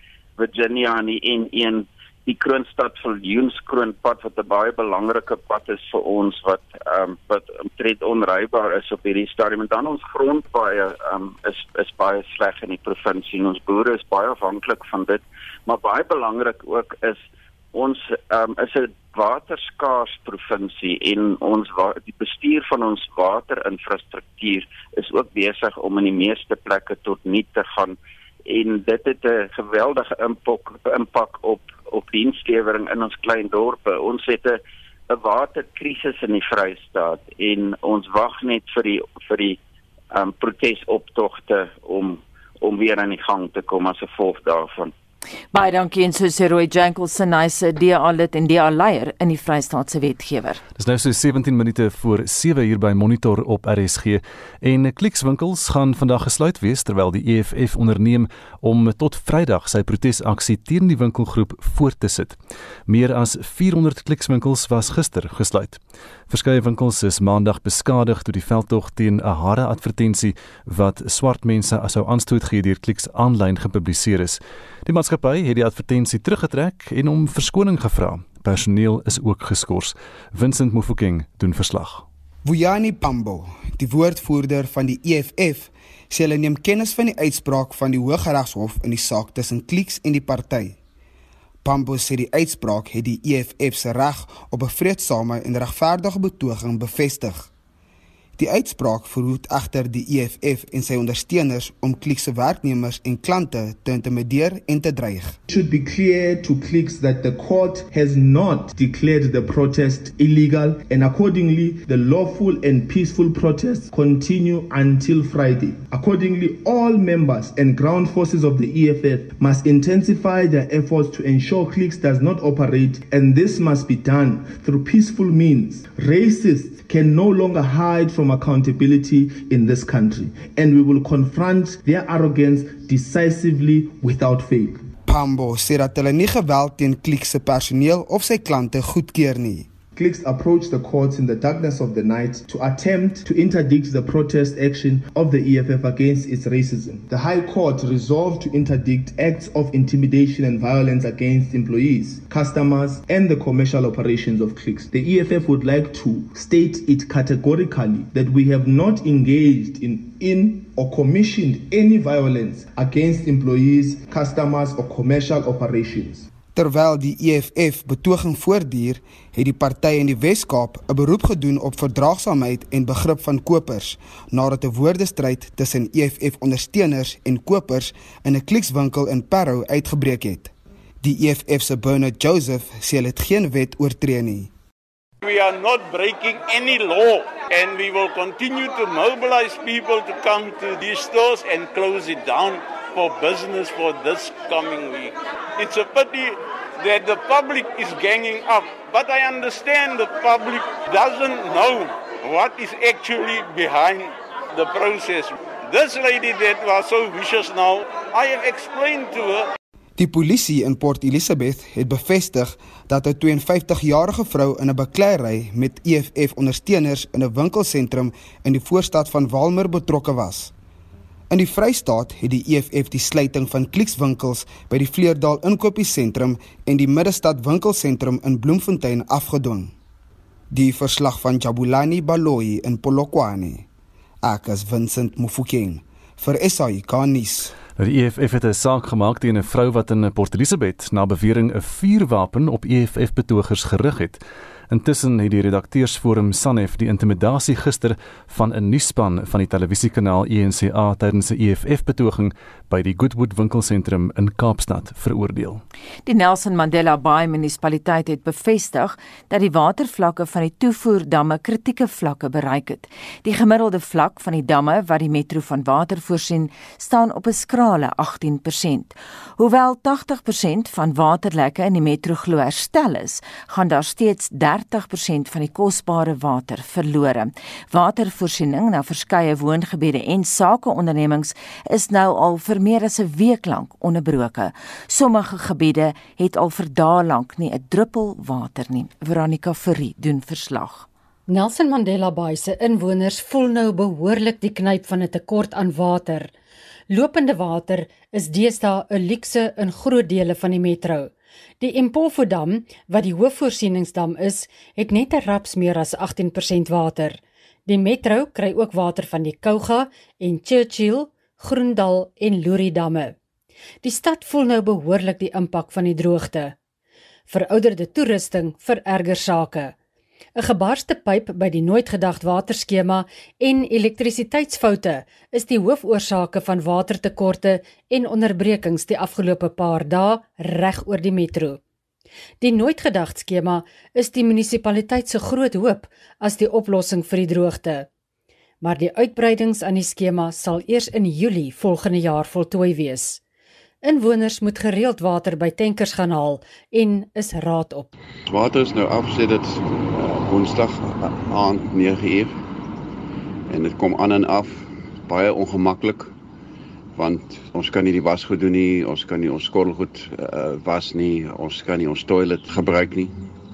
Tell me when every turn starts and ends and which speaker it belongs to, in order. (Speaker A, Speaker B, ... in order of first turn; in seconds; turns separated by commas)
Speaker A: 0.4-39.6, Speaker A: 40.1-44.9, Speaker B: 45.5-50.6, Speaker C: 50.8-82.0, Speaker D: 82.5-90.8, Speaker D: 91.7-97.5, Speaker D: 98.4-105.4, Speaker E: 105.5-134.9, Speaker D: 135.1-139.7, Speaker E: 139.9-166.3, Speaker D: 166.5-180.5, Speaker D: 181.0-184.5, Speaker F: 185.2-209.5, Speaker D: 210.0-220.5, Speaker D: 221.3-229.7, Speaker D: 230.5-233.6, Speaker D: 234.2-237.5, Speaker C: 237.8-255.6, Speaker B: 256.1-290.9, Speaker G: 291.3-296.3, Speaker G: 296.9-313.1, Speaker G: 313.8-316.6, Speaker G: 317.3-319.7, Speaker G: 320.4-331.6, Speaker G: 332.4-337.9, Speaker G: 338.6-343.2, Speaker G: 343.8-347.9, Speaker H: 348.3-352.4, Speaker H: 353.5-356.1, Speaker H: 357.0-363.1